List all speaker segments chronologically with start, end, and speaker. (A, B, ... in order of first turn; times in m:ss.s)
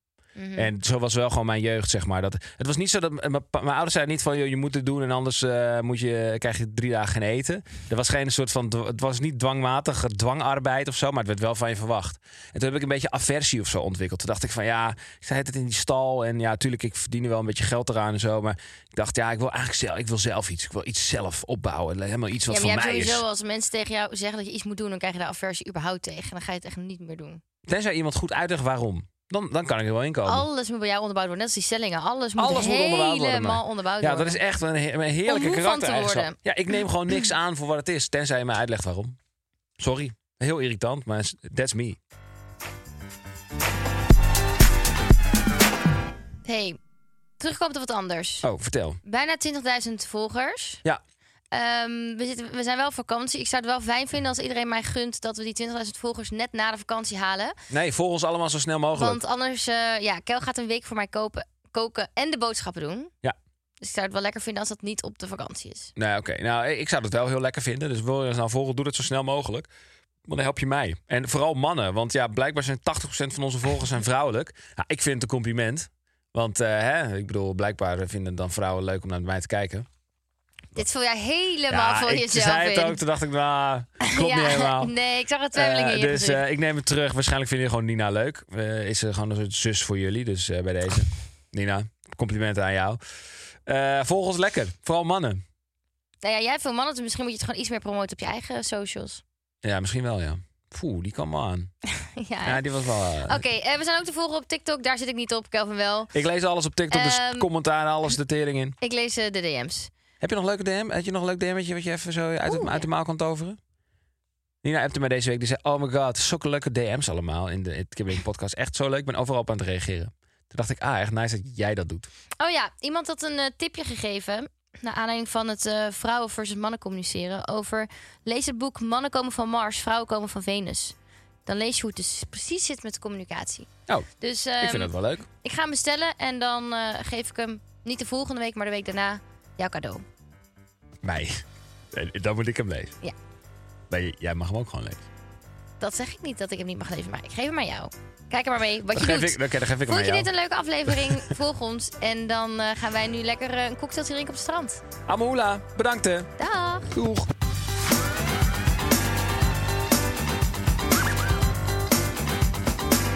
0:00.4-0:00.7 A
0:00.6-0:23.2 B
0:22.5-0:27.4 A
0:27.7-0:30.5 B
0:30.2-0:34.4 A
0:32.4-0:39.2 B
0:35.3-0:36.4 A
0:39.8-0:42.0 B
0:46.4-0:46.8 A
0:47.4-0:48.5 A
0:48.4-0:49.0 B
0:49.0-0:50.8 A
0:51.5-0:57.6 A
0:57.7-0:59.2 B
0:59.0-1:03.1 A
1:03.8-1:05.9 A
1:06.0-1:09.7 B
1:10.3-1:19.9 B
1:20.8-1:23.0 A
1:21.7-1:24.9 B
1:24.0-1:26.4 A
1:25.6-1:33.0 B
1:33.7-1:35.4 B
1:36.2-1:39.2 A
1:39.6-1:41.7 B
1:42.0-1:42.6 A
1:42.4-1:43.4 B
1:43.3-1:46.1 A
1:46.1-1:48.8 B
1:46.9-1:47.5 A
1:48.8-1:49.9 A
1:50.2-1:53.6 B
1:52.5-1:52.9 A
1:54.6-2:02.1 B
2:02.4-2:11.0 A
2:11.5-2:20.0 A
2:14.6-2:15.3 B
2:21.0-2:23.0 B
2:23.9-2:25.0 B
2:25.8-2:34.8 A
2:28.9-2:30.3 B
2:35.1-2:36.3 B
2:36.4-2:36.9 A
2:36.9-2:37.3 B